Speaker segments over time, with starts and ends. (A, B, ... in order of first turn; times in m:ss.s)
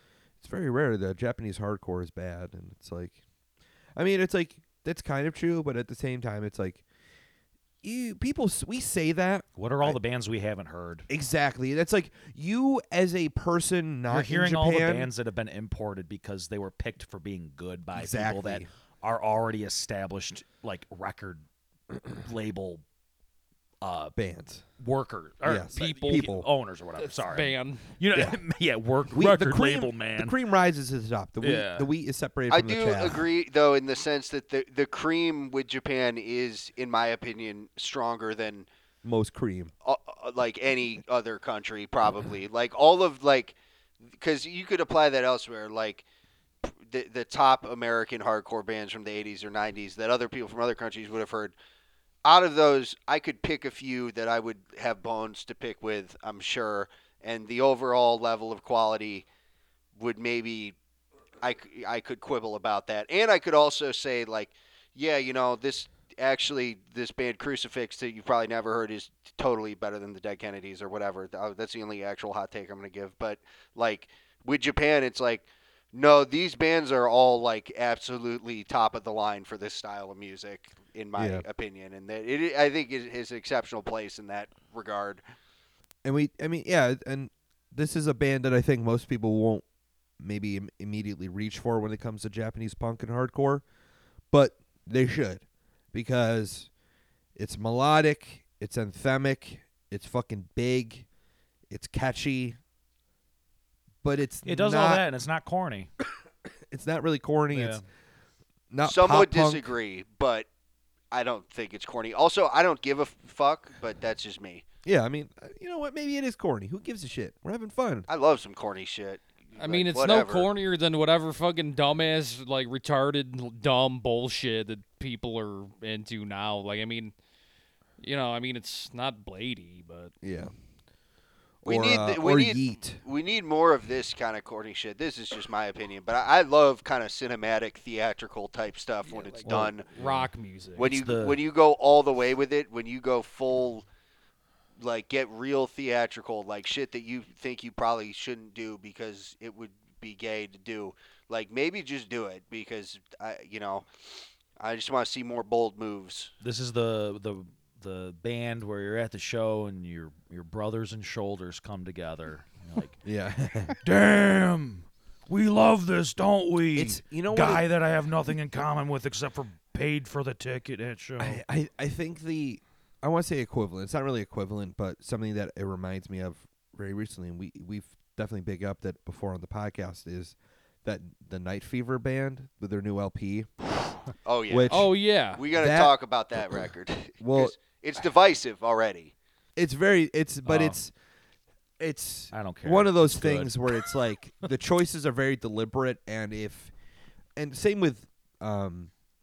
0:00.4-0:03.2 A
0:04.0-0:06.8 A
0:07.8-0:10.0 A
0:09.6-0:11.1 B
0:11.1-0:15.1 A
0:14.1-0:21.4 B
0:17.9-0:18.7 A
0:22.1-0:22.8 B
0:23.8-0:24.2 B
0:24.2-0:24.6 A
0:24.8-0:30.4 B
0:25.4-0:26.5 A
0:25.7-0:26.3 C
0:27.0-0:27.9 C
0:28.1-0:28.4 A
0:29.1-0:33.3 A
0:31.4-0:31.9 B
0:32.5-0:38.7 D
0:39.0-0:39.7 A
0:39.8-0:43.6 D
0:44.1-0:46.0 D
0:46.6-0:51.6 D
0:52.2-0:59.3 D
1:00.0-1:00.8 D
1:01.4-1:25.2 D
1:21.2-1:21.5 A
1:26.0-1:29.6 A
1:30.2-1:33.6 A
1:34.3-1:36.7 A
1:37.4-1:41.1 A
1:41.7-1:42.6 A
1:44.0-1:45.0 A
1:44.4-1:45.9 B
1:46.7-1:47.8 A
1:47.5-1:47.8 B
1:48.7-1:49.7 A
1:48.8-1:50.5 D
1:51.1-1:54.7 D
1:54.8-1:58.1 A
1:58.1-2:00.5 D
1:59.6-2:07.1 C
2:08.0-2:10.1 C
2:10.2-2:10.5 A
2:11.6-2:13.0 A
2:11.6-2:19.9 D
2:19.1-2:20.9 C
2:19.4-2:21.4 B
2:20.8-2:23.9 D
2:24.8-2:33.9 D
2:34.6-2:36.3 D
2:36.4-2:43.0 B
2:43.0-2:43.8 A
2:43.8-2:51.4 B
2:46.8-2:47.6 A
2:51.2-3:03.7 A
3:04.2-3:09.1 D
3:04.5-3:04.9 A
3:04.7-3:05.4 C
3:05.5-3:06.0 A
3:07.2-3:07.6 A
3:09.6-3:10.9 A
3:10.4-3:10.8 B
3:11.8-3:16.7 A
3:12.3-3:13.8 B
3:17.4-3:18.9 A